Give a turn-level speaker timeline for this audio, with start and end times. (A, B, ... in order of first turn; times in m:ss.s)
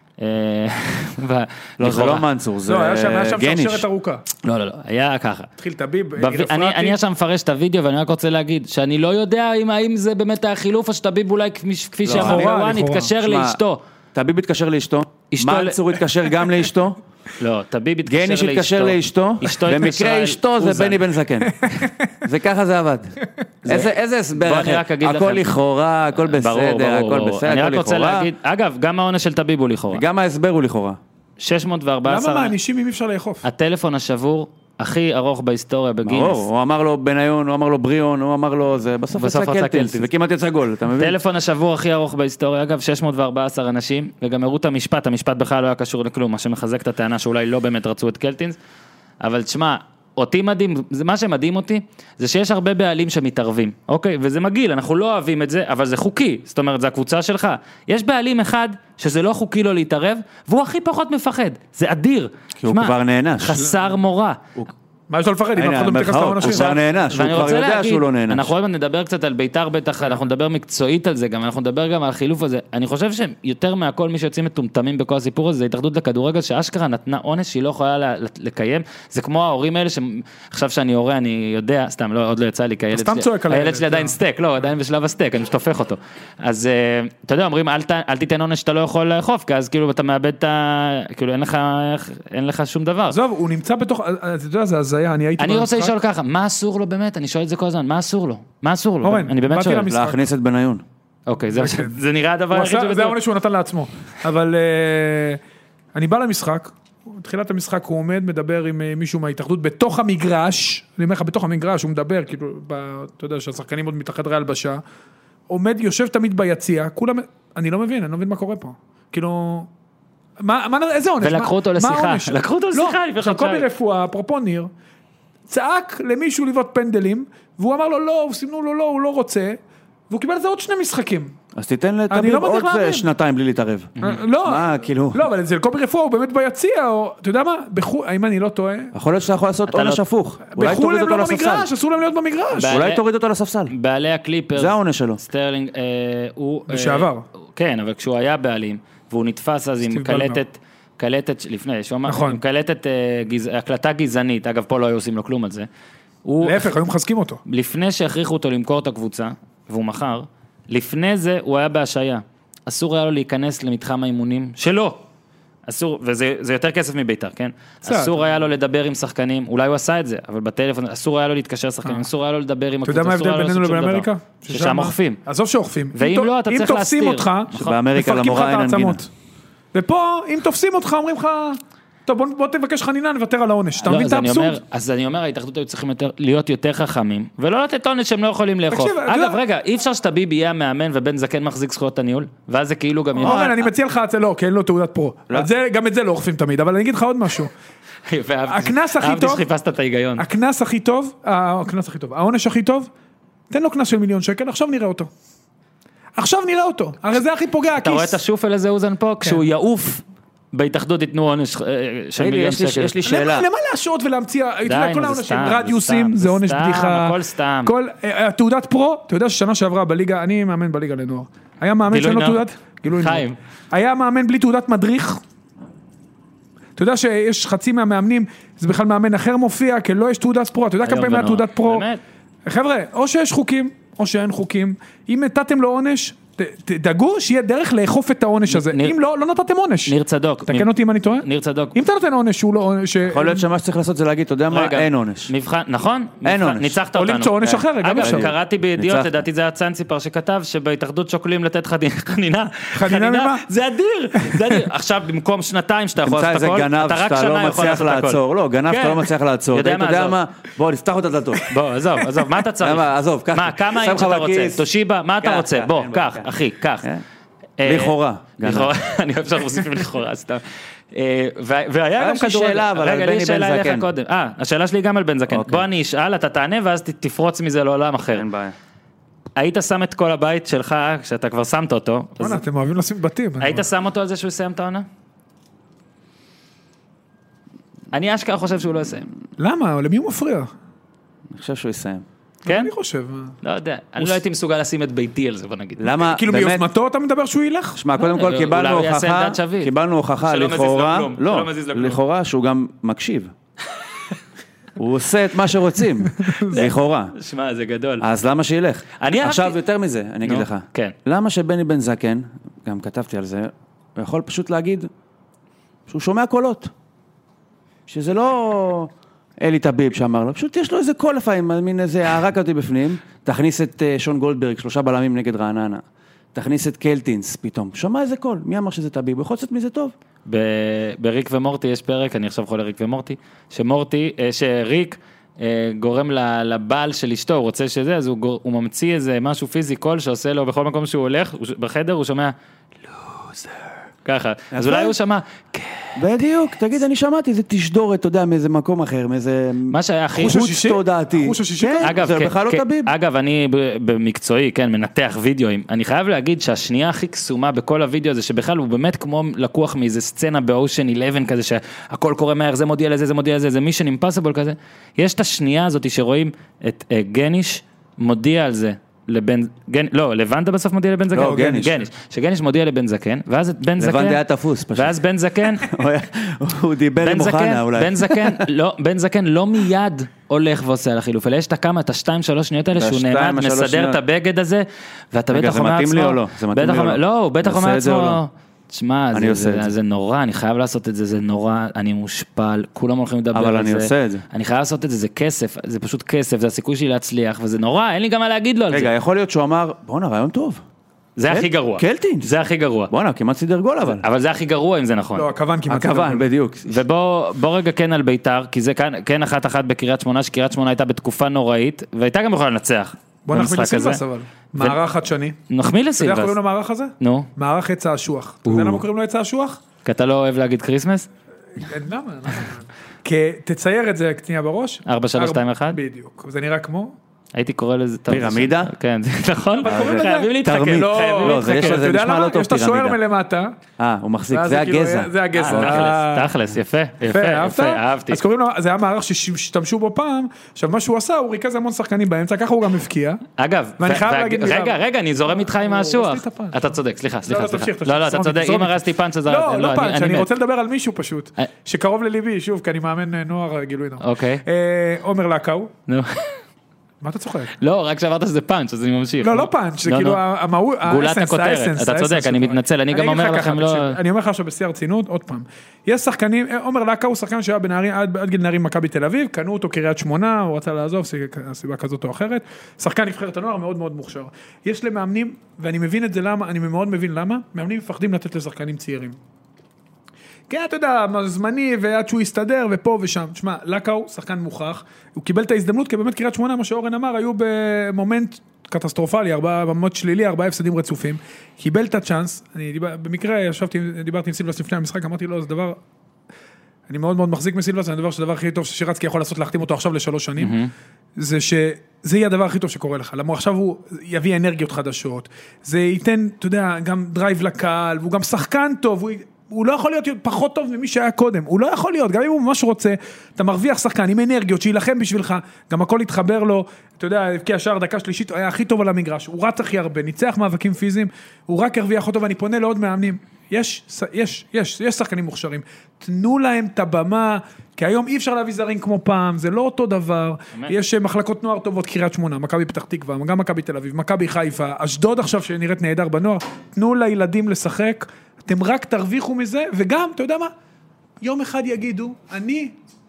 0:00.2-0:02.2 A
0:01.8-0:03.8 B
0:02.6-0:04.2 C
0:04.4-0:05.5 A
0:05.6-0:07.0 C
0:06.2-0:13.8 A
0:12.0-0:13.1 C
0:12.1-0:12.5 B
0:13.2-0:13.6 B
0:14.1-0:17.0 B
0:15.3-0:15.8 A
0:17.4-0:21.0 A
0:18.0-0:23.1 B
0:23.6-0:25.5 A
0:23.6-0:28.3 B
0:26.3-0:30.0 A
0:29.9-0:31.0 B
0:31.4-0:32.5 A
0:32.0-0:33.4 C
0:33.4-0:36.4 A
0:36.0-0:41.2 B
0:39.1-0:40.1 A
0:41.0-0:48.6 A
0:49.2-1:04.4 A
1:02.6-1:03.6 B
1:05.1-1:06.8 C
1:05.5-1:08.5 B
1:06.4-1:33.2 A
1:22.9-1:24.2 C
1:33.1-1:35.9 C
1:35.4-1:39.9 A
1:39.0-1:40.2 C
1:39.9-1:40.8 B
1:41.3-1:43.2 A
1:41.5-1:41.9 C
1:42.5-1:45.4 C
1:45.9-1:54.8 C
1:55.5-1:59.7 C
2:00.4-2:04.7 C
2:01.2-2:03.6 A
2:05.5-2:09.6 C
2:10.1-2:11.3 C
2:11.5-2:15.3 B
2:12.1-2:13.0 C
2:14.0-2:18.9 C
2:18.9-2:21.7 B
2:19.7-2:20.0 A
2:20.5-2:22.8 C
2:22.6-2:23.0 A
2:22.7-2:23.7 B
2:23.7-2:35.7 A
2:24.5-2:25.2 B
2:26.7-2:27.2 C
2:29.9-2:30.4 C
2:32.0-2:32.4 C
2:36.2-2:36.7 A
2:36.4-2:37.4 C
2:37.4-2:45.0 A
2:45.6-2:55.2 A
2:47.8-2:48.2 C
2:52.8-2:59.1 C
2:55.9-2:57.8 A
2:57.5-2:59.0 B
2:59.7-3:04.6 C
3:03.8-3:13.6 A
3:08.7-3:09.4 C
3:13.2-3:17.5 C
3:13.2-3:13.6 B
3:18.1-3:20.2 A
3:18.5-3:19.4 C
3:20.2-3:22.9 C
3:23.5-3:25.1 C
3:26.2-3:28.2 C
3:27.8-3:30.0 A
3:30.5-3:32.9 A
3:32.2-3:33.4 B
3:33.0-3:45.2 C
3:34.6-3:37.7 A
3:41.9-3:43.4 A
3:46.8-3:51.9 C
3:50.8-3:52.0 A
3:52.5-3:59.9 C
3:58.5-3:58.9 A
3:59.9-4:00.7 A
4:00.5-4:03.4 C
4:01.2-4:01.7 A
4:03.1-4:05.3 B
4:04.5-4:20.2 A
4:06.2-4:06.8 B
4:06.9-4:08.3 C
4:08.0-4:09.1 B
4:12.7-4:13.4 C
4:14.2-4:14.6 C
4:16.0-4:21.5 B
4:21.5-4:26.9 A
4:22.6-4:24.7 B
4:25.2-4:27.0 B
4:27.6-4:38.2 A
4:27.6-4:28.7 B
4:32.0-4:33.9 B
4:35.3-4:35.6 B
4:38.1-4:38.5 B
4:39.4-4:42.4 A
4:42.2-4:43.6 C
4:43.4-4:44.8 A
4:47.9-4:49.1 A
4:49.4-4:50.5 C
4:51.3-4:52.0 B
4:52.4-4:52.7 A
4:52.4-4:53.4 C
4:53.4-4:55.9 A
4:55.8-4:56.6 B
4:56.0-4:57.8 C
4:57.7-5:03.3 B
4:58.0-4:59.7 A
5:00.2-5:02.0 A
5:04.8-5:07.1 B
5:06.5-5:08.0 A
5:08.0-5:14.9 B
5:09.0-5:09.6 A
5:10.2-5:10.9 A
5:15.9-5:16.7 B
5:17.9-5:25.8 B
5:26.3-5:29.9 B
5:30.2-5:42.3 A
5:42.9-5:46.0 A
5:44.5-5:45.0 B
5:46.0-5:52.9 B
5:49.7-5:50.4 A
5:50.2-5:51.9 C
5:51.8-6:14.2 A
6:11.1-6:11.8 B
6:11.2-6:11.7 C
6:13.8-6:15.0 B
6:14.7-6:15.7 A
6:15.6-6:18.4 B
6:17.0-6:38.9 A
6:22.8-6:24.0 B
6:25.3-6:28.2 B
6:29.1-6:29.7 B
6:33.3-6:34.2 B
6:38.7-6:40.6 B
6:41.2-6:42.9 A
6:41.3-6:42.3 B
6:42.9-6:44.0 B
6:44.0-6:45.2 A
6:45.1-6:46.2 C
6:45.7-6:46.8 B
6:46.7-6:54.0 A
6:53.3-6:55.4 C
6:55.5-6:56.3 A
6:56.0-6:59.6 C
6:57.0-6:57.3 A
6:58.4-6:58.8 A
6:59.8-7:01.1 A
7:01.6-7:07.0 C
7:04.8-7:05.8 A
7:07.3-7:11.8 A
7:08.1-7:08.7 B
7:09.6-7:13.5 C
7:09.6-7:13.0 B
7:13.8-7:15.9 B
7:14.3-7:16.3 C
7:15.3-7:18.2 A
7:17.1-7:23.2 C
7:23.4-7:30.3 A
7:23.8-7:35.7 C
7:34.0-7:34.4 A
7:35.9-7:36.4 A
7:37.0-7:37.6 C
7:37.6-7:40.2 A
7:39.2-7:59.2 C
7:40.8-7:44.0 A
8:00.5-8:15.8 C
8:16.9-8:20.6 C
8:20.4-8:20.7 A
8:21.2-9:00.5 C
9:01.2-9:02.7 C